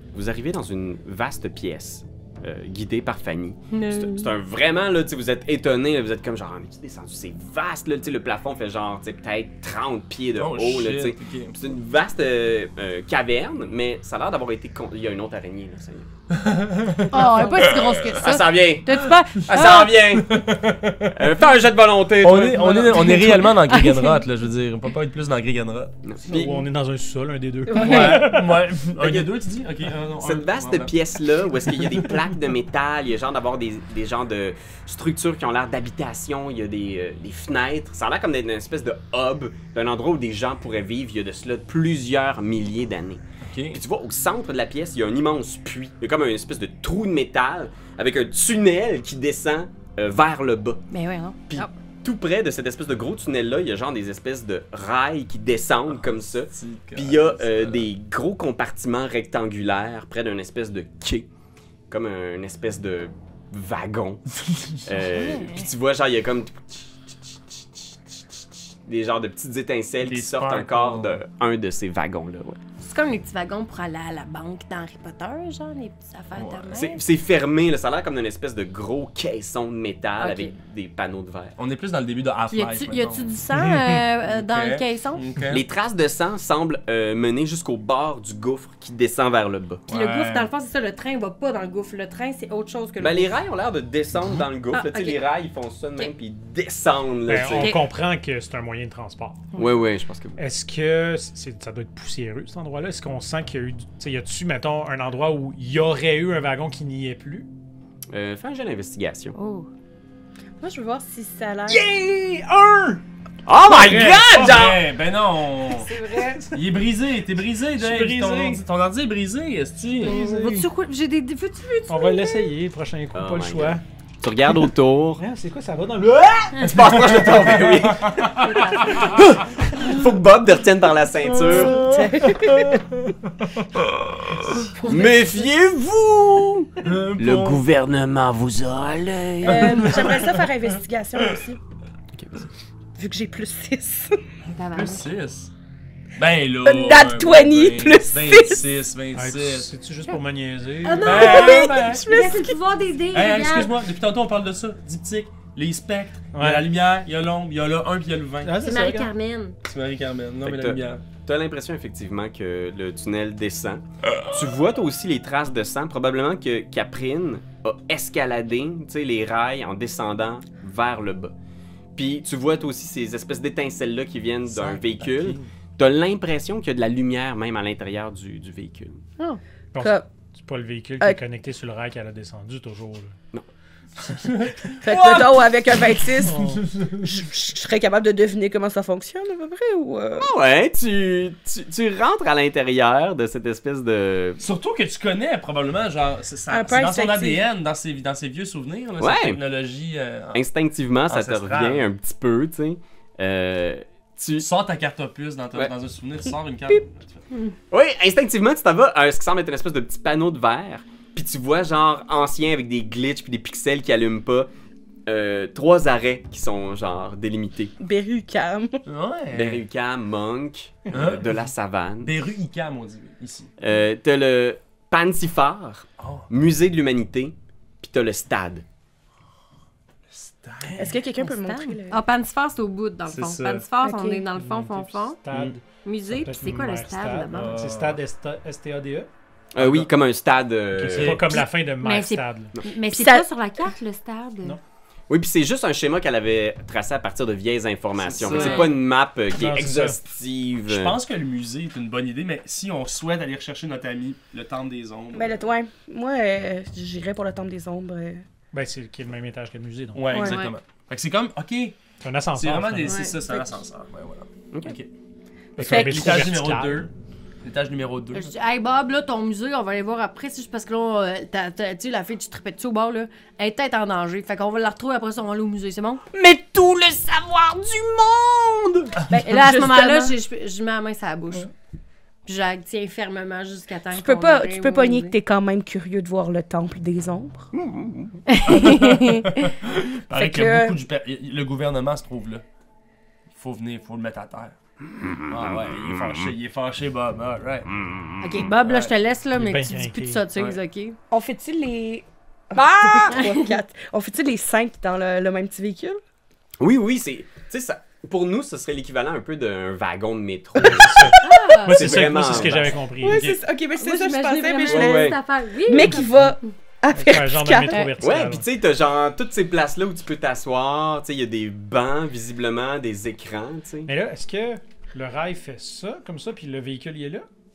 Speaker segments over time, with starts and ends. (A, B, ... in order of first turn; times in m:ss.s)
0:00.1-0:16.1 A
0:03.7-0:04.3 B
0:10.4-0:11.6 C
0:16.3-0:18.2 C
0:17.1-0:19.9 B
0:18.1-0:20.4 A
0:19.0-0:21.2 C
0:21.1-0:23.5 A
0:22.2-0:25.9 C
0:23.0-0:24.2 B
0:26.0-0:26.6 A
0:26.2-0:28.6 D
0:27.7-0:28.2 B
0:27.7-0:30.9 C
0:29.0-0:29.3 A
0:30.2-0:50.8 A
0:31.8-0:32.2 C
0:43.4-0:43.8 C
0:50.9-0:51.7 B
0:51.5-1:01.3 A
0:55.9-0:57.9 C
1:01.9-1:04.2 A
1:04.8-1:12.6 A
1:05.0-1:05.7 B
1:10.0-1:11.1 D
1:10.6-1:11.1 C
1:12.8-1:17.0 B
1:16.3-1:16.8 C
1:16.8-1:21.5 A
1:20.2-1:20.5 B
1:21.6-1:25.6 C
1:22.5-1:25.2 B
1:25.5-1:29.8 A
1:29.9-1:30.5 C
1:29.9-1:33.4 B
1:33.0-1:37.8 A
1:34.7-1:35.2 B
1:37.3-1:39.5 D
1:37.6-1:37.8 B
1:39.6-1:40.4 A
1:40.4-1:47.5 D
1:48.1-1:49.3 A
1:49.3-1:49.7 B
1:50.6-1:51.8 E
1:51.7-1:53.0 D
1:53.4-1:54.8 A
1:53.7-1:54.6 D
1:53.9-1:55.9 C
1:55.8-1:56.6 D
1:56.0-1:56.4 E
1:56.5-2:00.2 C
1:57.8-1:58.6 D
2:00.0-2:00.7 D
2:00.0-2:02.5 B
2:01.9-2:03.8 D
2:03.1-2:05.2 A
2:05.2-2:06.8 D
2:06.6-2:08.1 A
2:06.8-2:09.2 C
2:08.4-2:09.4 B
2:09.2-2:11.8 A
2:11.3-2:14.6 C
2:11.6-2:12.8 E
2:14.6-2:15.5 B
2:14.8-2:20.0 A
2:16.8-2:17.6 C
2:19.4-2:21.6 E
2:19.4-2:20.5 C
2:22.1-2:22.4 A
2:23.0-2:24.2 E
2:24.4-2:25.1 B
2:24.7-2:25.5 C
2:26.2-2:29.7 C
2:26.6-2:28.6 E
2:29.1-2:31.4 D
2:30.8-2:33.8 B
2:31.0-2:32.0 C
2:31.0-2:32.6 E
2:33.1-2:38.6 C
2:36.3-2:36.6 D
2:38.4-2:39.1 D
2:38.6-2:39.6 B
2:39.6-2:41.0 C
2:40.4-2:51.3 A
2:51.9-2:59.0 A
2:54.5-2:55.4 C
2:59.7-3:03.2 D
2:59.8-3:00.1 E
3:04.1-3:07.0 C
3:04.8-3:10.3 E
3:06.2-3:06.6 D
3:10.2-3:14.4 A
3:14.4-3:20.4 C
3:16.5-3:17.4 E
3:19.0-3:19.4 A
3:20.3-3:24.5 A
3:21.1-3:21.8 C
3:24.4-3:27.2 C
3:27.7-3:34.5 A
3:35.0-3:37.8 A
3:37.8-3:38.8 E
3:38.8-3:39.6 C
3:39.3-3:42.1 A
3:40.9-3:41.4 C
3:42.0-3:43.5 C
3:43.6-3:48.6 A
3:46.0-3:46.3 C
3:50.1-3:51.0 C
3:50.7-3:52.0 E
3:51.0-3:55.2 B
3:53.1-3:53.6 C
3:53.8-3:54.2 E
3:54.3-3:59.1 D
3:55.3-3:55.6 C
3:55.8-3:57.6 B
3:57.3-3:58.0 C
3:59.5-4:01.3 A
3:59.6-3:59.9 C
4:00.8-4:01.4 C
4:00.9-4:02.5 D
4:01.8-4:04.6 B
4:02.9-4:03.3 E
4:05.1-4:11.0 A
4:08.0-4:08.7 C
4:08.2-4:08.7 B
4:09.3-4:10.0 D
4:10.7-4:15.4 C
4:15.1-4:18.2 E
4:18.5-4:20.4 D
4:19.9-4:21.8 C
4:20.1-4:20.5 B
4:22.0-4:23.0 D
4:22.3-4:24.9 C
4:22.8-4:23.5 B
4:23.0-4:23.4 E
4:25.6-4:26.9 D
4:25.6-4:26.9 C
4:25.6-4:26.3 E
4:27.4-4:28.3 C
4:28.1-4:36.0 B
4:36.1-4:38.9 A
4:39.1-4:40.1 E
4:39.2-4:41.5 B
4:42.2-4:45.1 B
4:43.9-4:47.5 E
4:47.6-4:48.1 A
4:48.3-4:49.3 B
4:48.5-4:52.4 C
4:50.1-4:50.8 E
4:53.3-4:54.5 C
4:55.0-4:56.3 A
4:55.2-4:57.8 C
4:58.2-5:01.0 B
4:58.6-4:58.9 C
4:59.3-5:00.2 D
5:01.1-5:06.0 E
5:02.5-5:03.2 A
5:03.1-5:03.5 B
5:06.6-5:12.7 A
5:10.6-5:13.4 D
5:11.2-5:12.2 B
5:13.0-5:17.8 E
5:13.8-5:16.3 B
5:14.6-5:15.2 A
5:16.9-5:18.4 D
5:17.7-5:17.9 B
5:18.0-5:23.9 A
5:23.8-5:27.3 D